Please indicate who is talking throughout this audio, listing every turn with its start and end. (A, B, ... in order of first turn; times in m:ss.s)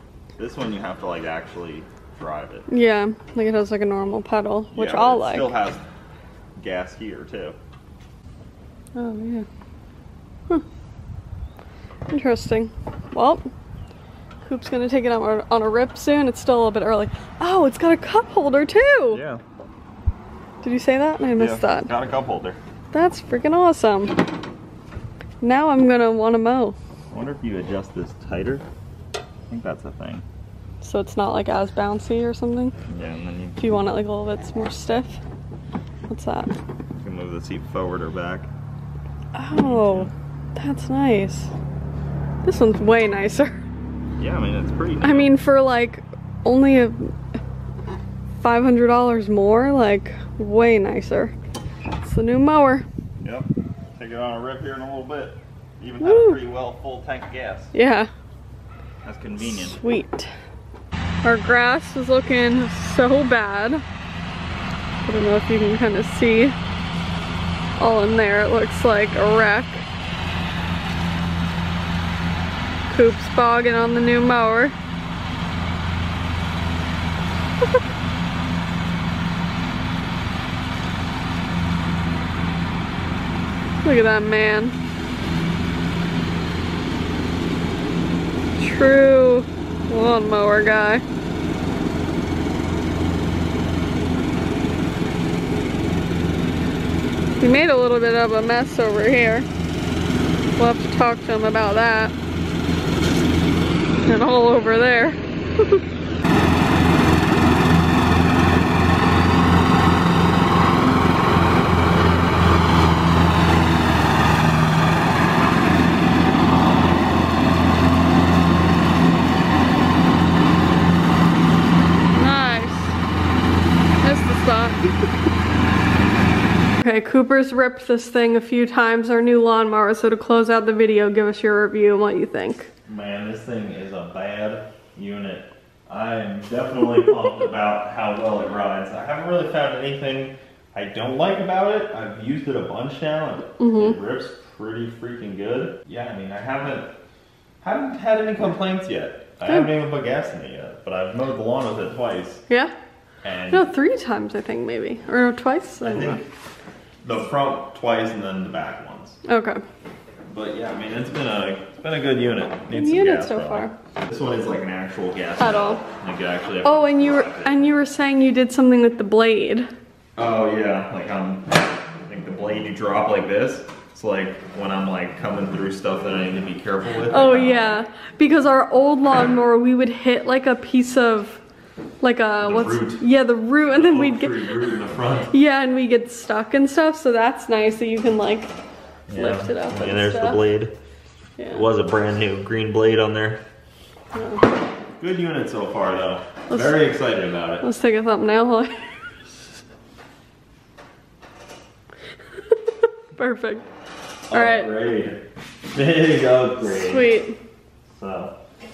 0:00.4-0:02.7 A
0:02.7-0:05.5 B
0:04.7-0:05.8 A
0:06.6-0:07.6 A
0:09.0-0:09.5 B
0:12.1-0:13.5 B
0:14.4-0:19.2 B
0:19.1-0:19.4 A
0:20.6-0:21.9 B
0:21.4-0:22.6 A
0:22.9-0:24.3 B
0:25.4-0:26.8 B
0:27.1-0:28.6 A
0:29.5-0:30.2 A
0:30.8-0:32.8 B
0:32.9-0:33.6 A
0:33.6-0:35.2 B
0:36.1-0:36.6 B
0:36.9-0:38.5 A
0:39.3-0:41.5 B
0:39.5-0:40.1 A
0:42.4-0:43.6 B
0:44.2-0:45.4 A
0:45.0-0:47.2 B
0:48.4-0:51.4 B
0:52.0-0:52.9 B
0:53.2-0:57.7 A
0:56.0-0:56.4 B
0:57.7-0:58.1 B
0:59.0-0:59.8 A
0:59.4-1:00.3 B
1:01.2-1:03.8 B
1:05.0-1:06.6 B
1:07.8-1:09.9 B
1:12.9-1:14.8 B
1:23.8-1:24.8 B
1:28.6-1:31.0 B
1:37.4-1:39.5 B
1:40.6-1:42.1 B
1:44.0-1:45.8 B
2:02.1-2:03.0 B
2:04.0-2:05.1 B
2:06.8-2:12.7 B
2:12.9-2:26.9 A
2:23.6-2:24.0 B
2:27.6-2:32.5 A
2:29.5-2:29.7 B
2:32.5-2:32.7 B
2:33.2-2:33.7 A
2:33.5-2:36.2 B
2:35.8-2:36.3 A
2:37.0-2:39.2 A
2:39.2-2:39.6 B
2:40.3-2:47.6 A
2:42.7-2:43.8 B
2:45.4-2:45.8 B
2:46.6-2:49.7 B
2:50.2-2:51.5 A
2:52.1-2:57.8 A
2:57.1-3:01.4 B
3:02.0-3:04.6 B
3:02.4-3:03.1 A
3:03.7-3:05.4 A
3:05.3-3:08.5 B
3:09.1-3:10.8 A
3:09.1-3:10.4 B
3:11.4-3:11.6 B
3:11.5-3:13.4 A
3:14.1-3:14.4 B
3:15.0-3:17.7 A
3:16.5-3:16.8 B
3:17.6-3:19.5 B
3:23.2-3:23.6 B
3:24.3-3:25.2 A
3:24.3-3:24.7 B
3:25.7-3:27.1 A
3:26.6-3:27.4 B
3:27.9-3:28.3 A